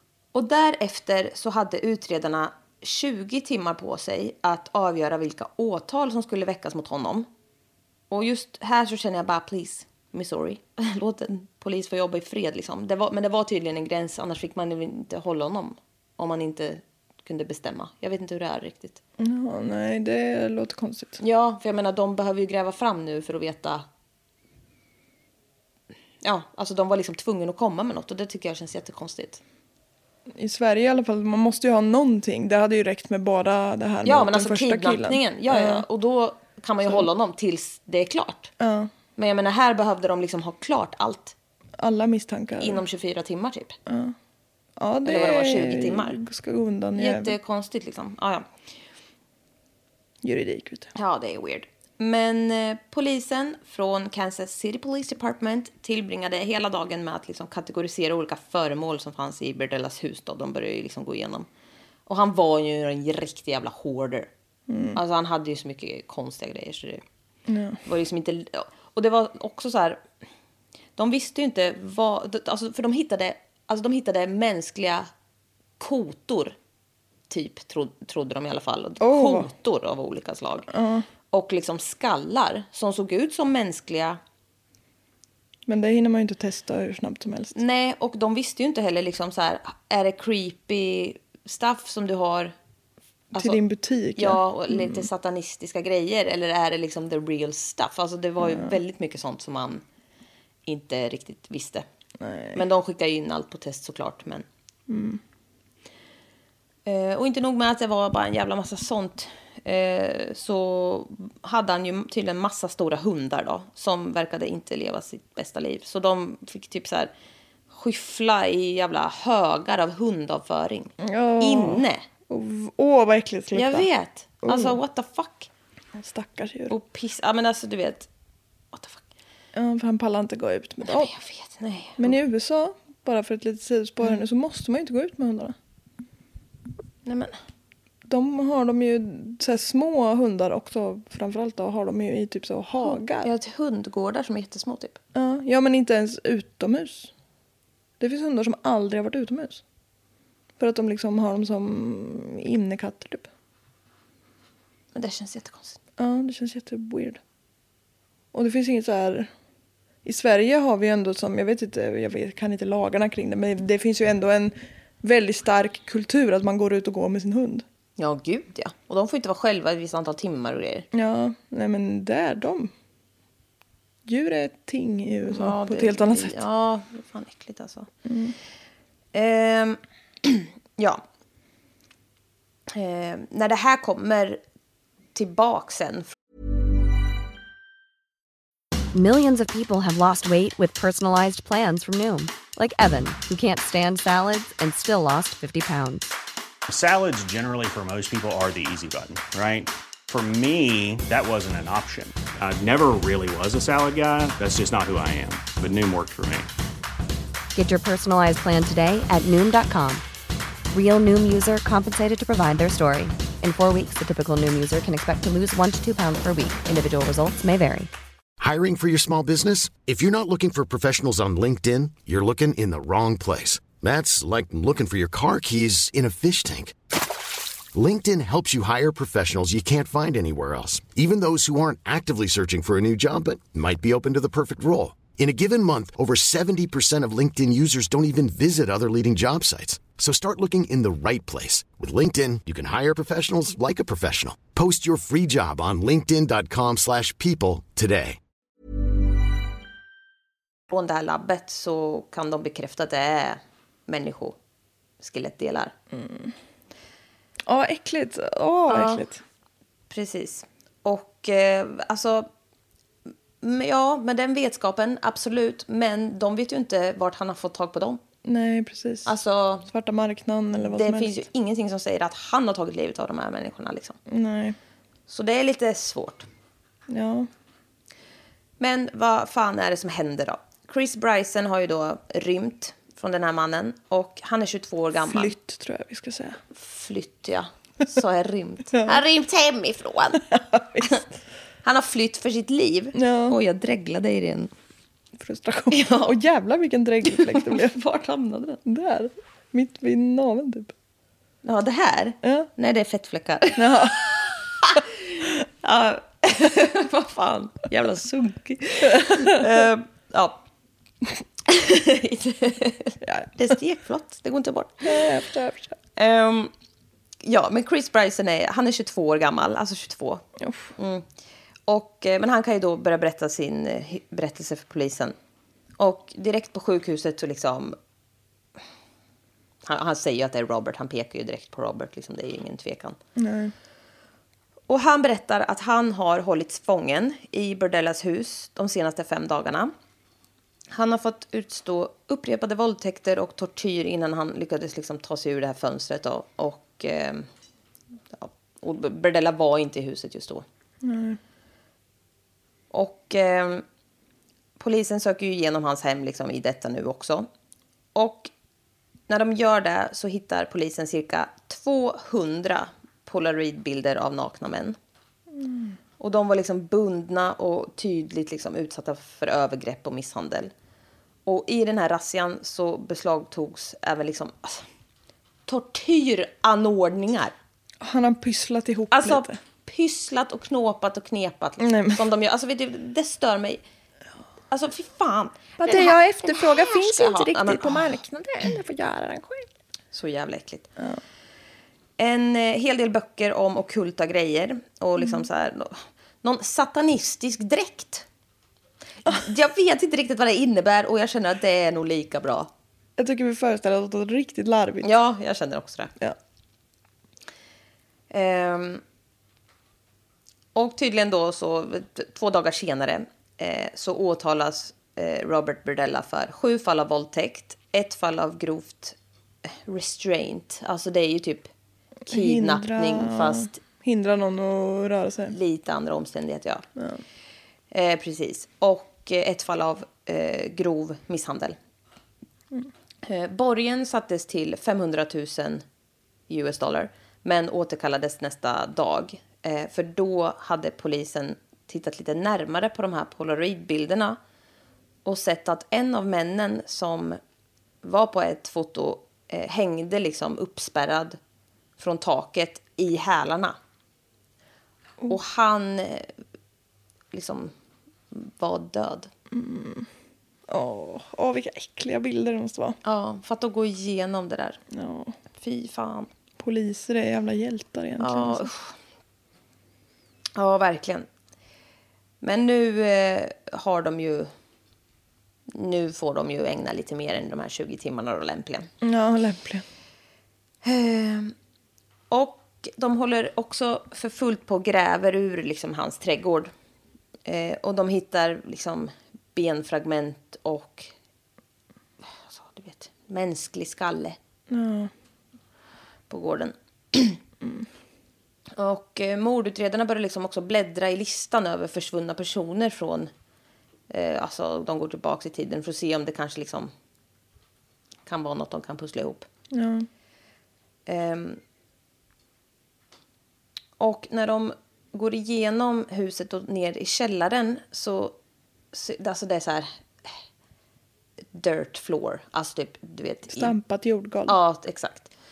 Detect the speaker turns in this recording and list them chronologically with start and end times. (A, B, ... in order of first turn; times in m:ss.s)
0:00.3-0:07.3 A
0:08.1-0:19.0 A
0:19.2-0:21.2 B
0:21.2-0:23.8 A
0:26.2-0:29.4 A
0:30.3-0:35.8 B
0:34.0-0:38.5 A
0:38.6-0:38.9 B
0:39.2-0:41.3 A
0:41.8-0:42.8 B
0:42.6-0:43.8 A
0:43.8-0:44.2 B
0:44.8-0:47.4 B
0:45.0-0:46.2 A
0:47.0-0:48.5 A
0:50.2-0:50.9 B
0:50.9-1:01.5 A
1:02.1-1:04.3 A
1:04.7-1:05.0 B
1:04.9-1:07.0 A
1:07.5-1:07.8 B
1:07.8-1:10.0 A
1:11.0-1:15.1 A
1:15.8-1:16.6 A
1:17.3-1:20.7 A
1:19.0-1:19.5 B
1:20.7-1:21.1 B
1:21.3-1:24.2 A
1:25.7-1:27.6 B
1:27.5-1:32.5 A
1:33.3-1:35.1 B
1:34.2-1:39.8 A
1:38.4-1:38.8 B
1:40.6-1:41.8 A
1:42.2-1:42.6 B
1:42.5-1:44.4 A
1:44.9-1:45.2 B
1:46.8-1:57.1 A
1:57.7-2:02.0 A
2:01.0-2:03.9 B
2:03.5-2:05.5 A
2:04.4-2:04.8 B
2:05.9-2:06.7 B
2:06.7-2:08.1 A
2:08.7-2:09.0 A
2:09.5-2:11.1 B
2:10.8-2:12.1 A
2:12.0-2:15.6 B
2:17.0-2:17.4 A
2:18.0-2:23.3 B
2:22.8-2:25.0 A
2:25.1-2:27.1 B
2:28.0-2:29.6 B
2:30.6-2:33.3 B
2:34.9-2:35.8 A
2:36.0-2:37.2 B
2:38.3-2:39.3 B
2:40.0-2:47.6 B
2:48.0-2:50.8 A
2:50.9-2:52.7 B
2:54.0-2:56.4 B
2:55.3-2:57.9 A
2:58.0-2:58.4 B
2:59.1-3:01.0 A
3:02.7-3:04.4 A
3:05.1-3:06.1 A
3:08.9-3:16.1 C
3:16.7-3:26.5 D
3:27.5-3:30.0 C
3:30.7-3:37.9 C
3:38.4-3:46.7 E
3:47.7-4:08.2 E
4:10.7-4:14.4 A
4:15.0-4:15.7 A
4:15.9-4:16.3 B
4:17.4-4:19.2 B
4:18.7-4:19.1 A
4:19.9-4:22.3 A
4:23.4-4:28.0 A
4:28.2-4:31.3 B
4:29.0-4:29.7 A
4:30.6-4:34.0 A
4:34.1-4:34.6 B
4:35.1-4:36.3 A
4:36.9-4:37.3 B
4:38.6-4:45.3 A
4:45.0-4:46.4 B
4:46.5-4:50.3 A
4:48.7-4:49.0 B
4:50.3-4:51.0 B
4:51.6-4:54.5 A
4:52.9-4:53.4 B
4:55.2-4:57.8 B
4:55.7-4:56.2 A
4:57.1-4:58.6 A
4:58.6-5:00.7 B
5:01.4-5:10.4 A
5:02.2-5:02.5 B
5:03.6-5:04.0 B
5:08.9-5:09.4 B
5:11.5-5:15.2 A
5:13.0-5:13.3 B
5:14.8-5:15.8 B
5:16.0-5:16.5 A
5:17.2-5:20.2 A
5:20.4-5:20.7 B
5:20.8-5:21.0 A
5:21.7-5:25.1 A
5:25.8-5:27.8 A
5:29.6-5:33.0 A
5:33.2-5:33.5 B
5:34.7-5:39.7 A
5:40.7-5:47.3 A
5:48.1-5:50.4 A
5:50.8-5:51.2 B
5:52.7-5:53.6 A
5:54.6-5:57.3 A
5:57.9-5:58.3 A
5:59.1-6:04.8 A
6:05.3-6:05.8 B
6:06.0-6:10.5 A
6:11.2-6:14.6 A
6:15.5-6:17.3 A
6:17.8-6:19.4 B
6:18.9-6:23.6 A
6:21.6-6:22.0 B
6:24.5-6:28.0 A
6:25.6-6:29.5 B
6:29.9-6:30.7 A
6:32.0-6:38.0 A
6:39.0-6:42.5 A
6:43.0-6:44.9 B
6:44.8-6:45.9 A
6:48.1-6:48.8 A
6:50.5-6:59.0 A
6:59.6-7:01.5 A
7:02.1-7:05.3 B
7:02.1-7:03.6 A
7:05.3-7:06.6 A
7:06.8-7:07.0 B
7:07.7-7:11.6 A
7:13.0-7:15.6 A
7:16.3-7:24.2 A
7:25.0-7:27.2 A
7:27.8-7:31.2 A
7:31.8-7:33.6 A
7:35.1-7:36.1 A
7:37.1-7:37.5 A
7:38.1-7:39.1 A
7:39.3-7:39.9 B
7:40.5-7:42.8 B
7:42.8-7:44.6 A
7:44.7-7:45.2 B
7:45.4-7:46.1 A
7:46.4-7:48.5 B
7:48.0-7:48.7 A
7:50.4-7:51.1 A
7:52.2-7:54.3 A
7:55.5-7:58.7 A
7:58.8-7:59.6 B
8:00.6-8:01.3 A
8:02.1-8:06.5 A
8:07.2-8:10.9 A
8:12.0-8:14.2 A
8:14.5-8:14.9 B
8:16.1-8:17.2 A
8:17.4-8:17.7 B
8:18.6-8:23.1 A
8:23.9-8:26.7 A
8:28.0-8:29.3 A
8:29.5-8:29.9 B
8:30.9-8:31.4 A
8:33.8-8:38.2 A
8:38.7-8:40.2 A
8:41.3-8:43.6 A
8:43.3-8:44.4 B
8:44.3-8:45.1 A